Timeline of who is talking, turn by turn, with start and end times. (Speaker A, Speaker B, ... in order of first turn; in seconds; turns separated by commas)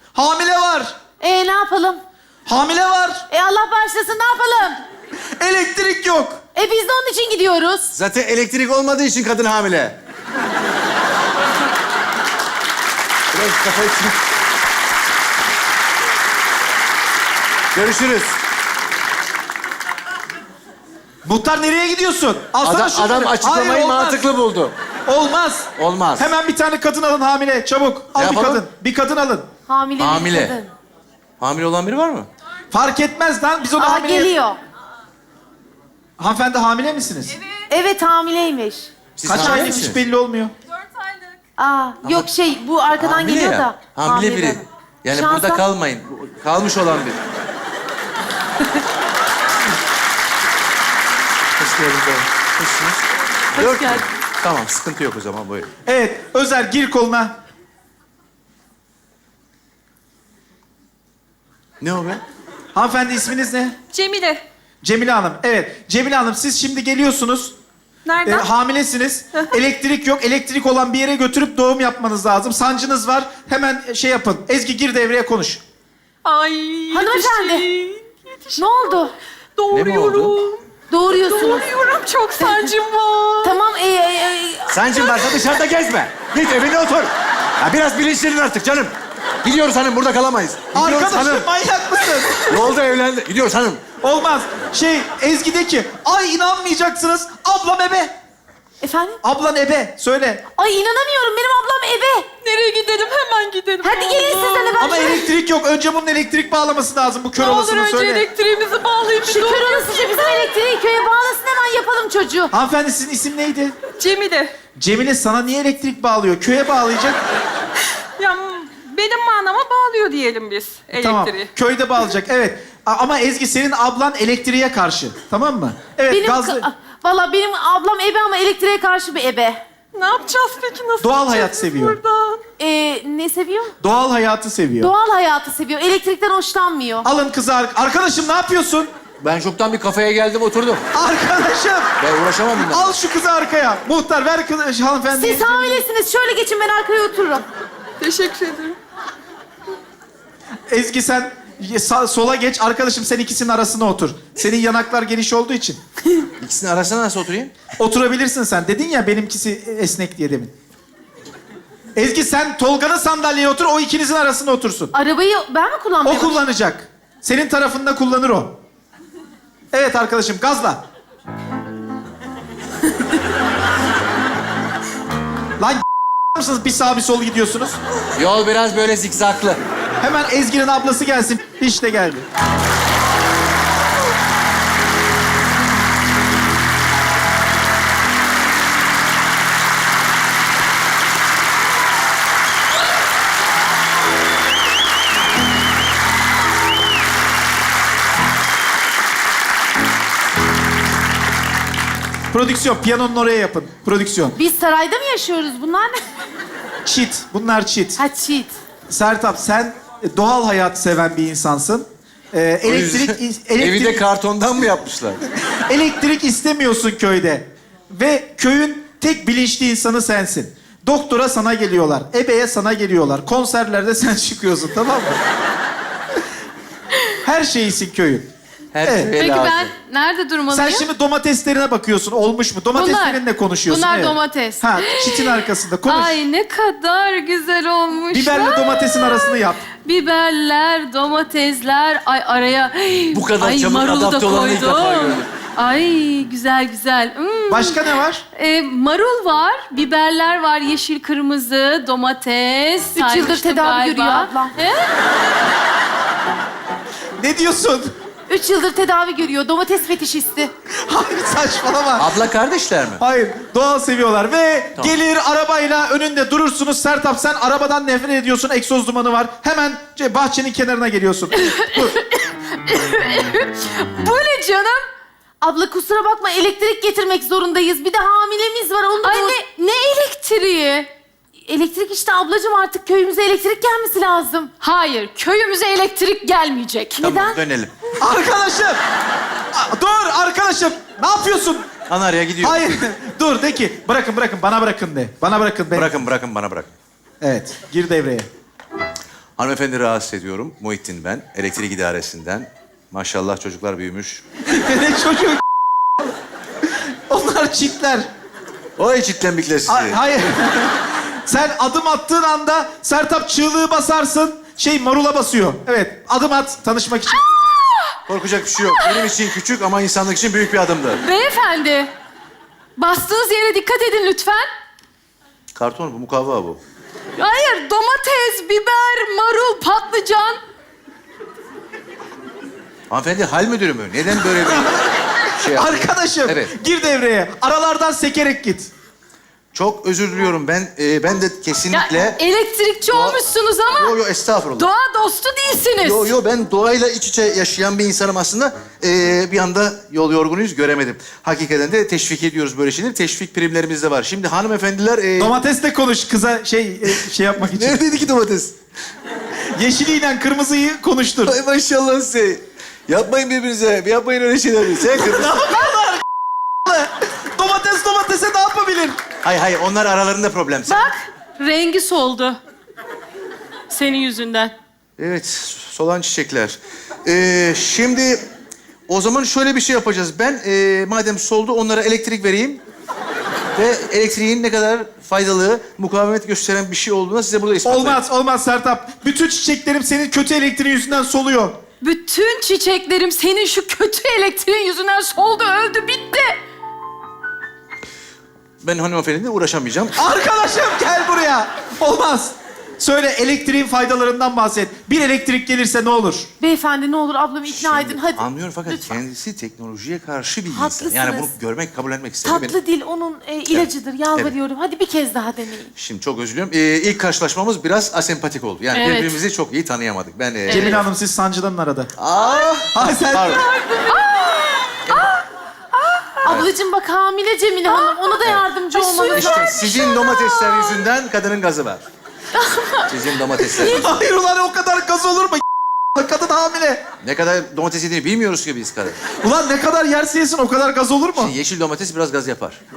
Speaker A: 0.1-0.9, Speaker B: 1.2-2.0, Speaker A: 2.5-3.2, Speaker B: 3.3-4.8, Speaker A: 5.4-6.4, Speaker B: 6.5-7.9, Speaker C: 7.9-9.9, Speaker C: 13.3-14.2, Speaker C: 17.7-18.4, Speaker A: 21.2-24.2, Speaker C: 22.6-24.7, Speaker A: 25.1-29.5, Speaker C: 25.8-26.3, Speaker C: 28.1-28.6, Speaker B: 29.7-30.7, Speaker C: 30.0-30.6, Speaker C: 31.4-32.3, Speaker A: 32.7-34.3, Speaker B: 33.8-34.6, Speaker A: 36.2-37.3, Speaker B: 37.7-39.7, Speaker C: 39.2-40.0, Speaker A: 39.2-40.5, Speaker B: 41.6-45.6, Speaker C: 42.0-42.3, Speaker C: 43.0-47.2, Speaker C: 51.6-53.0, Speaker C: 53.5-55.7, Speaker D: 53.5-54.0, Speaker A: 55.9-57.3, Speaker C: 61.8-62.2, Speaker A: 62.7-63.8, Speaker E: 63.9-64.4, Speaker A: 64.8-67.5, Speaker E: 68.0-68.5, Speaker A: 68.2-75.6, Speaker E: 76.2-77.4, Speaker D: 76.7-78.0, Speaker B: 76.9-77.7, Speaker E: 78.1-79.0, Speaker B: 78.6-79.1, Speaker E: 79.6-83.5, Speaker C: 79.7-80.3, Speaker B: 80.9-81.7, Speaker D: 81.7-82.8, Speaker B: 82.4-82.7, Speaker B: 83.4-85.0, Speaker C: 84.7-91.5, Speaker A: 90.7-92.6, Speaker C: 92.2-93.8, Speaker A: 94.0-98.1, Speaker B: 98.8-99.2, Speaker A: 99.2-100.5, Speaker B: 100.5-102.3, Speaker D: 102.4-104.7, Speaker E: 102.7-104.8, Speaker B: 103.8-105.3, Speaker A: 104.8-108.2, Speaker E: 107.3-110.5, Speaker B: 109.2-112.5, Speaker D: 109.3-110.0, Speaker A: 112.5-113.7, Speaker E: 114.0-114.5, Speaker A: 114.8-117.2, Speaker E: 118.2-121.5, Speaker A: 120.9-126.7, Speaker B: 126.1-129.6, Speaker E: 129.9-132.4, Speaker A: 131.0-132.0, Speaker B: 132.6-133.7, Speaker A: 133.8-134.9, Speaker B: 134.8-137.1, Speaker A: 137.0-138.9, Speaker C: 139.2-140.8, Speaker A: 140.9-141.9, Speaker C: 142.0-142.9, Speaker A: 142.6-145.8, Speaker B: 145.1-147.4, Speaker D: 148.0-148.5, Speaker E: 148.0-148.8, Speaker A: 150.7-155.8, Speaker C: 156.4-157.5, Speaker A: 157.8-160.5, Speaker A: 161.9-164.9, Speaker B: 164.9-166.4, Speaker A: 166.0-168.5, Speaker A: 169.7-170.8, Speaker A: 175.6-177.8, Speaker C: 178.2-179.6, Speaker A: 180.0-182.2, Speaker A: 202.3-204.4, Speaker B: 204.3-205.9, Speaker A: 206.8-208.0, Speaker B: 208.0-208.6, Speaker A: 208.9-214.0, Speaker C: 212.6-215.2, Speaker A: 215.5-225.2, Speaker A: 227.2-228.3, Speaker C: 228.7-229.7, Speaker A: 228.8-229.1, Speaker D: 229.1-230.9, Speaker A: 230.5-236.2, Speaker D: 232.7-254.9, Speaker A: 238.1-239.6, Speaker C: 243.1-245.3, Speaker A: 247.5-248.2, Speaker B: 252.9-254.5, Speaker A: 257.2-257.9, Speaker B: 258.3-260.5, Speaker A: 260.8-262.1, Speaker C: 262.0-263.0, Speaker A: 263.0-271.9, Speaker D: 271.3-274.9, Speaker B: 275.4-279.4, Speaker D: 279.0-280.9, Speaker B: 281.5-284.5, Speaker D: 284.6-287.0, Speaker B: 286.9-287.4, Speaker C: 287.0-287.7, Speaker A: 288.0-288.8, Speaker A: 289.5-291.6, Speaker C: 291.9-292.6, Speaker A: 292.4-295.9, Speaker C: 295.7-296.7, Speaker A: 297.2-298.3, Speaker C: 299.4-304.2, Speaker A: 304.5-305.4, Speaker A: 307.1-308.1, Speaker C: 308.8-310.0, Speaker A: 309.7-317.3, Speaker D: 317.2-317.9, Speaker C: 318.1-321.0, Speaker D: 318.7-319.1, Speaker D: 321.0-321.9, Speaker D: 322.8-324.5, Speaker C: 325.5-326.6, Speaker D: 327.1-330.4, Speaker C: 332.9-336.5, Speaker A: 335.5-338.7, Speaker C: 339.5-342.2, Speaker D: 341.7-344.0, Speaker C: 342.9-344.7, Speaker D: 344.6-346.1, Speaker C: 345.8-355.3, Speaker A: 355.2-357.8, Speaker C: 356.9-358.5, Speaker A: 359.6-361.3, Speaker C: 361.3-365.4, Speaker A: 365.0-366.0, Speaker A: 366.6-369.0, Speaker C: 369.2-370.9, Speaker D: 370.7-372.4, Speaker D: 373.7-374.5, Speaker C: 375.0-378.2, Speaker C: 378.9-382.6, Speaker C: 383.5-388.0, Speaker A: 387.6-391.6, Speaker D: 391.8-396.4, Speaker C: 398.6-400.0, Speaker A: 399.9-406.3, Speaker B: 406.4-408.9, Speaker C: 407.4-412.6, Speaker B: 410.5-411.3, Speaker B: 412.2-415.7, Speaker C: 413.5-414.3, Speaker C: 415.8-420.8, Speaker D: 418.7-419.2, Speaker D: 420.5-420.8, Speaker A: 420.5-421.9, Speaker C: 422.0-423.4, Speaker D: 422.3-422.6, Speaker A: 422.7-423.4, Speaker D: 423.4-425.1, Speaker C: 424.9-425.2, Speaker D: 425.8-426.1, Speaker B: 426.2-429.7, Speaker C: 426.2-426.5, Speaker D: 427.7-430.8, Speaker C: 429.1-431.8, Speaker D: 432.4-432.8, Speaker C: 432.9-434.0, Speaker A: 433.5-436.8, Speaker C: 437.0-439.0, Speaker A: 439.1-441.3, Speaker C: 441.1-442.6